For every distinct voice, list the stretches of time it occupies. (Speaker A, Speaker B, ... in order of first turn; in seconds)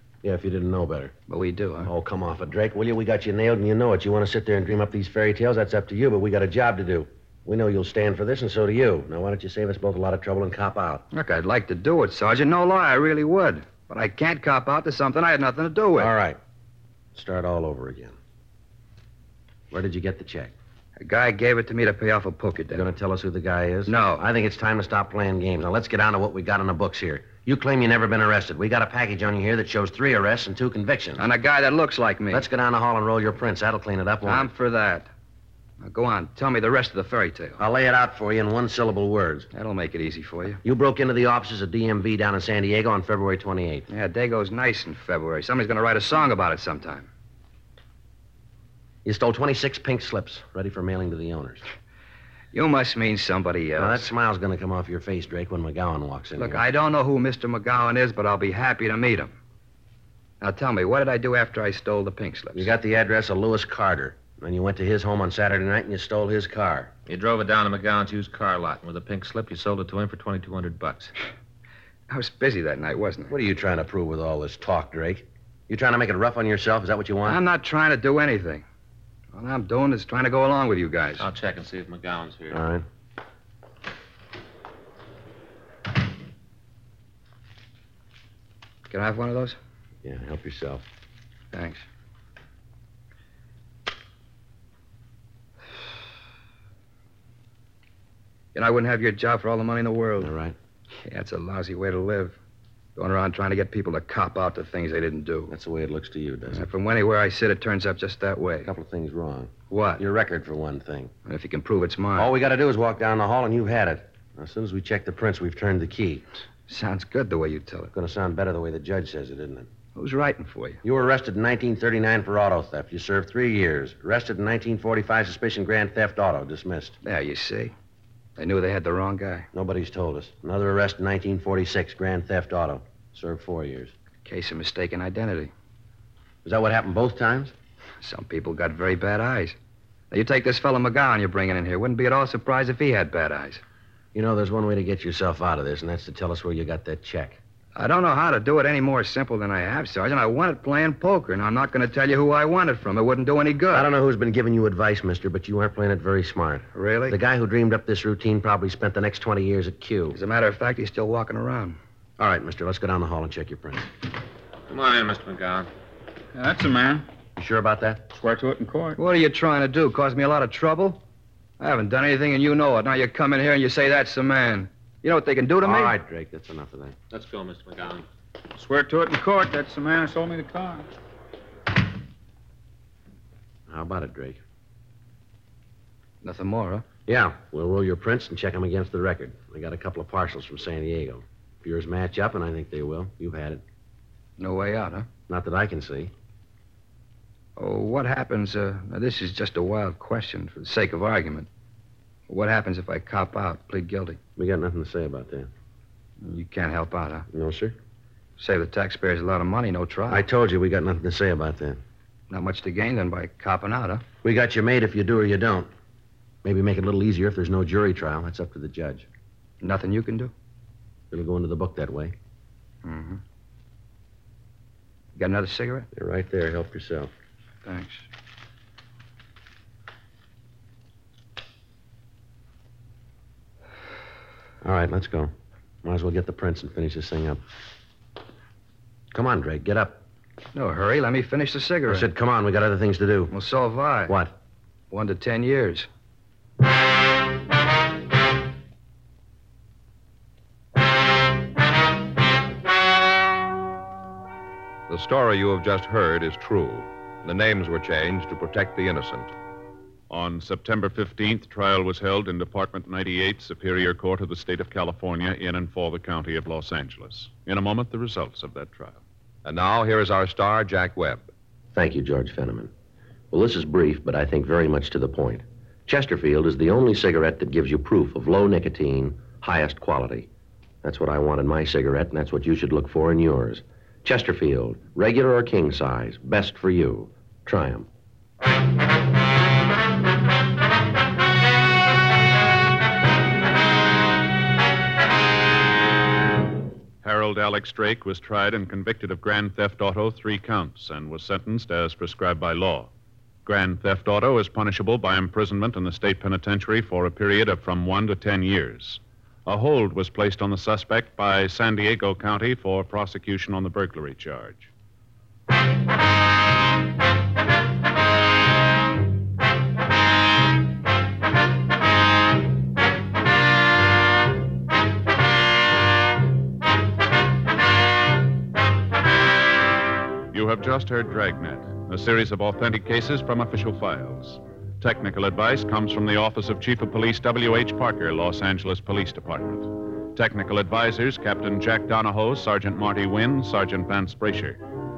Speaker A: 0.2-1.1, 1.8-11.1, 16.0-16.4, 17.1-18.1, 19.7-20.5, 22.7-31.2, 32.3-34.5, 37.6-39.5, 40.6-43.9, 49.0-51.6, 53.8-56.6, 62.5-66.9, 73.3-77.4, 82.5-82.8, 90.0-90.8, 100.2-100.5, 105.5-106.7, 108.6-111.1, 112.2-116.2, 117.9-119.7, 120.8-127.0, 129.5-133.9, 136.4-137.5, 144.1-147.4, 153.7-160.2, 162.2-163.9, 167.3-168.1, 175.6-176.9, 183.7-184.4, 187.1-193.6, 195.3-196.1, 204.3-205.5, 207.3-207.8, 210.1-211.8, 214.2-215.7, 216.4-219.1, 221.1-222.1, 225.9-227.1, 234.6-235.3, 235.8-237.4, 239.1-240.0, 241.9-243.3, 244.1-244.3, 271.7-272.7, 273.3-280.3, 280.8-287.9
Speaker B: 1.3-1.9, 11.1-16.1, 21.0-22.8, 23.9-24.2, 31.2-32.4, 34.2-35.1, 35.8-37.6, 39.5-40.6, 43.9-47.1, 52.5-54.1, 56.4-59.3, 60.4-62.7, 72.1-73.3, 77.2-78.6, 79.3-81.2, 88.9-89.6, 91.5-91.8, 98.5-100.3, 101.0-102.3, 103.0-105.5, 106.5-108.7, 109.7-110.0, 111.2-112.3, 116.7-117.9, 120.0-120.8, 127.0-127.7, 128.4-129.5, 134.2-135.5, 138.0-139.6, 140.1-143.6, 147.7-153.9, 156.7-157.2, 160.1-161.8, 169.0-171.0, 171.6-175.9, 186.2-186.8, 194.4-195.1, 197.6-201.5, 202.3-204.2, 206.2-207.3, 208.4-210.2, 212.3-214.0, 219.6-220.3, 222.8-223.2, 225.2-225.9, 227.6-228.0, 240.5-242.1, 243.3-244.1, 244.9-245.9
Speaker C: 67.1-71.1, 81.2-82.6, 164.7-165.7, 177.1-178.1
Speaker D: 166.3-167.1, 168.1-169.0, 178.6-180.9
Speaker E: 254.9-259.3, 269.4-271.3
Speaker F: 260.1-269.0, 297.0-302.9, 303.4-314.7, 330.3-344.6